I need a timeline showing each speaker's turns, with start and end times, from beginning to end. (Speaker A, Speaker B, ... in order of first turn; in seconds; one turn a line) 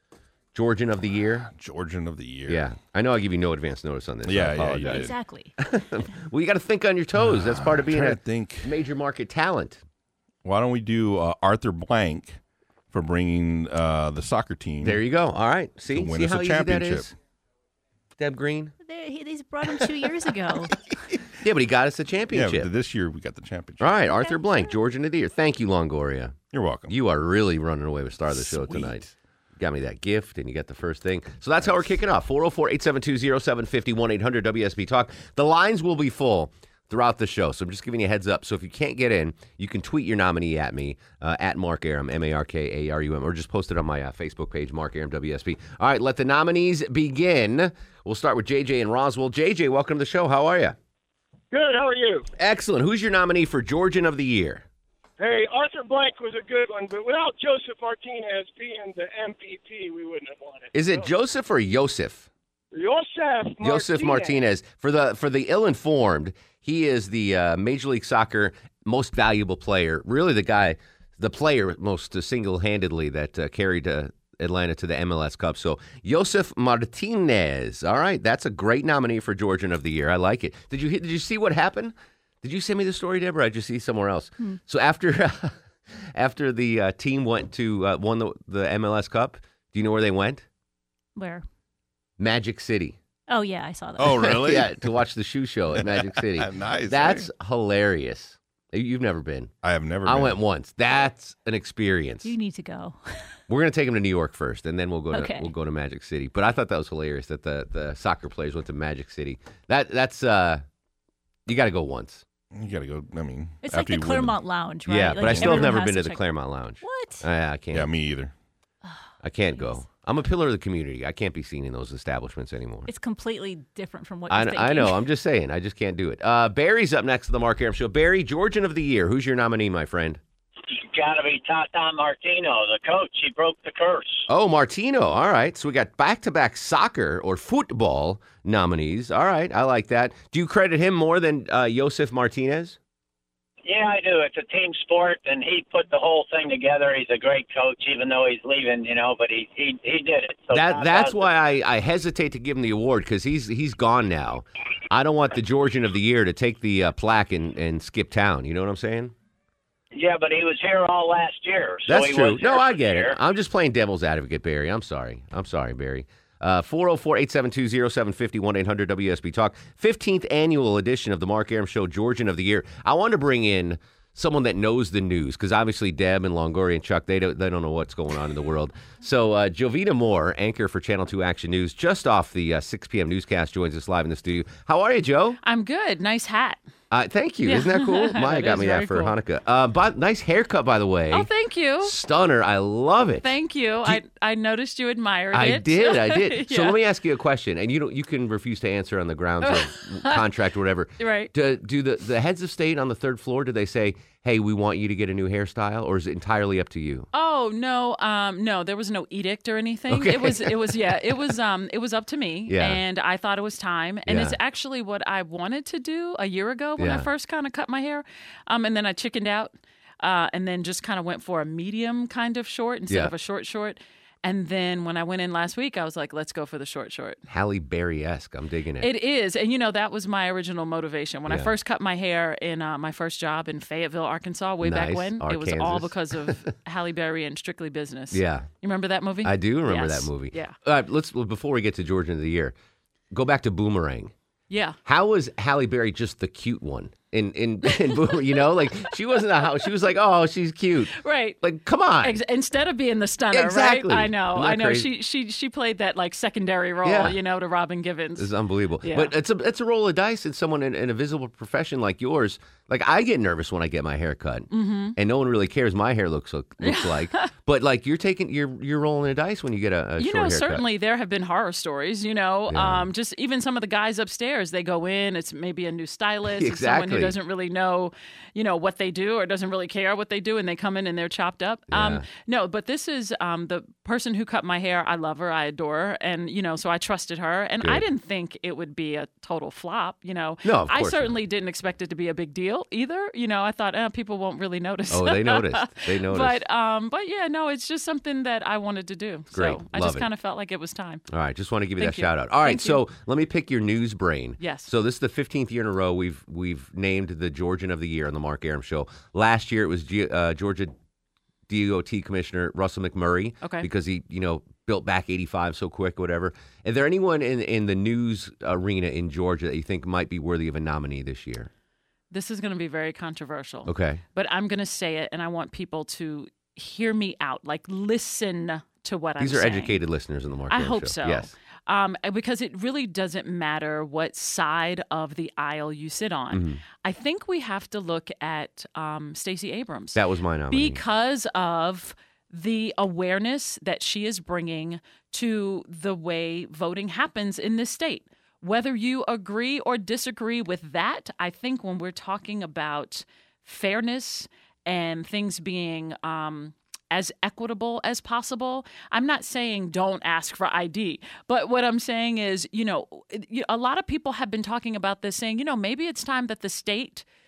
Speaker A: 0.5-1.5
Speaker B: 1.5-2.7
Speaker A: 2.5-9.8
Speaker B: 4.2-5.1
Speaker C: 4.8-5.5
Speaker B: 7.2-8.7
Speaker B: 10.4-12.4
Speaker B: 12.9-15.0
Speaker A: 14.8-17.1
Speaker B: 15.9-17.1
Speaker A: 18.2-18.7
Speaker C: 18.8-20.7
Speaker A: 21.4-22.7
Speaker B: 22.3-23.9
Speaker A: 23.8-26.4
Speaker C: 24.0-24.8
Speaker B: 26.5-26.9
Speaker A: 26.9-50.8
Speaker B: 28.3-29.1
Speaker D: 51.5-52.3
Speaker A: 52.4-54.6
Speaker D: 55.2-61.1
Speaker A: 60.7-62.3
Speaker D: 62.7-64.4
Speaker A: 63.6-85.5
Speaker A: 86.1-90.4
Speaker C: 91.2-91.5
Speaker A: 92.2-93.0
Speaker C: 93.3-94.3
Speaker B: 94.0-94.8
Speaker A: 94.2-99.5
Speaker B: 95.8-97.3
Speaker B: 99.6-100.4
Speaker A: 100.0-102.3
Speaker C: 102.2-103.3
Speaker A: 103.5-110.6
Speaker C: 105.1-105.5
Speaker A: 111.5-112.2
Speaker B: 112.5-114.4
Speaker C: 113.6-116.3
Speaker A: 114.8-117.9
Speaker B: 115.2-115.7
Speaker C: 116.8-117.3
Speaker B: 117.7-118.3
Speaker C: 118.8-119.8
Speaker A: 119.2-122.9
Speaker C: 122.9-125.0
Speaker A: 124.3-130.2
Speaker E: 130.7-134.2
Speaker A: 134.3-142.8
Speaker E: 143.6-151.3
Speaker A: 150.5-159.1
Speaker E: 159.9-163.1
Speaker A: 161.9-185.4
Speaker F: 185.4-186.6
Speaker A: 186.9-191.3
Speaker F: 187.4-189.1
Speaker F: 191.1-191.9
Speaker A: 191.8-193.3
Speaker F: 193.2-196.8
Speaker A: 195.3-207.1
Speaker F: 199.4-200.2
Speaker F: 201.0-201.3
Speaker F: 207.1-227.2
Speaker A: 209.9-211.3
Speaker A: 212.5-212.8
Speaker A: 214.1-214.4
Speaker A: 216.8-217.1
Speaker A: 227.3-228.9
Speaker F: 228.8-240.6
Speaker A: 234.6-236.5
Speaker A: 238.1-238.5
Speaker A: 239.2-242.5
Speaker A: 243.1-244.1
Speaker F: 244.5-244.8
Speaker A: 244.8-252.2
Speaker F: 251.0-251.4
Speaker F: 252.0-258.3
Speaker A: 253.3-254.9
Speaker A: 256.8-257.2
Speaker A: 258.2-270.6
Speaker F: 258.8-259.1
Speaker F: 264.5-264.9
Speaker F: 266.6-267.2
Speaker F: 270.0-301.0
Speaker A: 272.5-272.9
Speaker A: 276.3-277.1
Speaker A: 281.7-282.0
Speaker A: 290.4-291.1
Speaker A: 294.9-296.4
Speaker A: 299.3-300.1
Speaker A: 301.1-310.7
Speaker F: 301.8-302.8
Speaker F: 304.4-304.7
Speaker A: 311.5-321.5
Speaker F: 313.4-313.7
Speaker F: 322.1-329.8
Speaker A: 323.6-324.0
Speaker A: 329.2-331.3
Speaker F: 330.5-367.0
Speaker A: 336.3-336.6
Speaker A: 339.9-340.8